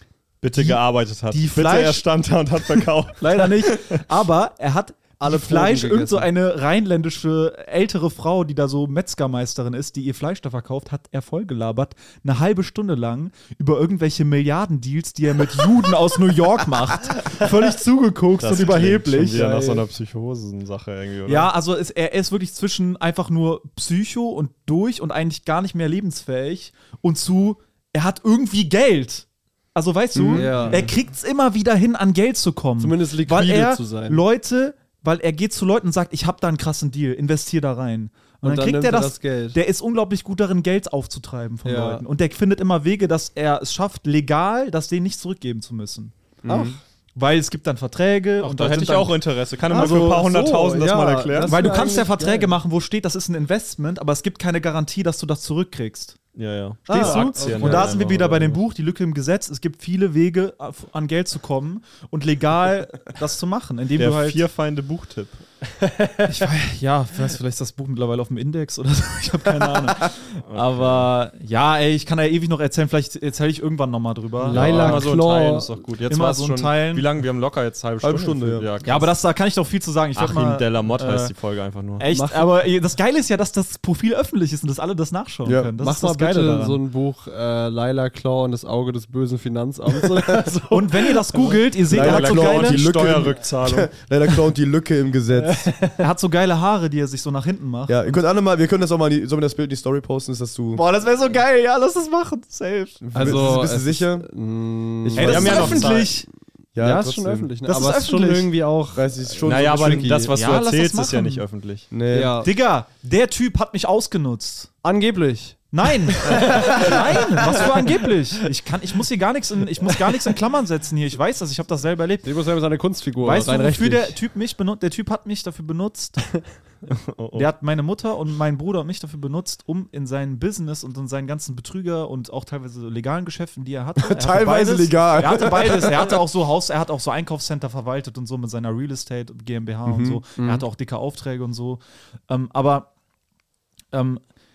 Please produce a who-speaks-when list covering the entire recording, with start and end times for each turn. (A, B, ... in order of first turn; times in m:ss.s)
0:00.4-0:04.0 A
0:00.6-0:02.1 B
0:02.8-0:19.8 B
0:05.2-0:06.3 C
0:18.4-0:21.5 A
0:21.3-0:46.2 B
0:30.1-0:30.6 D
0:30.3-0:30.9 C
0:30.6-0:30.9 A
0:32.8-0:34.2 C
0:38.4-0:39.6 C
0:41.6-0:42.0 C
0:46.4-0:46.8 D
0:46.4-0:46.8 C
0:47.2-0:49.2 B
0:48.4-0:51.7 A
0:49.7-0:52.6 C
0:49.7-0:50.2 D
0:51.5-0:56.2 B
0:56.4-0:58.6 A
0:56.9-0:57.9 C
0:56.9-1:04.4 B
1:04.0-1:05.5 A
1:06.3-1:15.1 B
1:10.4-1:11.1 A
1:14.5-1:15.8 C
1:14.5-1:19.2 A
1:16.1-1:17.1 B
1:18.0-1:18.7 D
1:18.8-1:21.3 B
1:20.2-1:22.0 A
1:22.0-1:26.8 B
1:22.1-1:22.6 C
1:25.4-1:25.7 D
1:25.8-1:31.6 C
1:30.7-1:32.8 B
1:31.9-1:33.9 A
1:31.9-1:35.7 D
1:35.4-1:36.0 C
1:36.0-1:38.1 B
1:37.9-1:40.8 D
1:40.8-1:43.6 B
1:43.0-1:44.3 D
1:43.1-1:45.8 C
1:45.0-1:46.1 D
1:45.2-1:46.3 B
1:45.2-1:46.1 A
1:46.8-1:47.5 D
1:46.8-1:50.3 C
1:47.6-1:48.5 B
1:48.9-1:50.3 D
1:49.4-1:51.9 A
1:50.3-1:51.4 B
1:51.9-1:52.4 D
1:52.1-1:52.5 C
1:52.4-1:54.7 B
1:54.8-1:57.9 C
1:55.7-2:02.3 B
2:02.2-2:04.2 C
2:03.2-2:06.4 B
2:06.9-2:07.5 A
2:07.4-2:22.9 B
2:14.0-2:16.1 D
2:19.9-2:20.4 D
2:23.9-2:24.2 B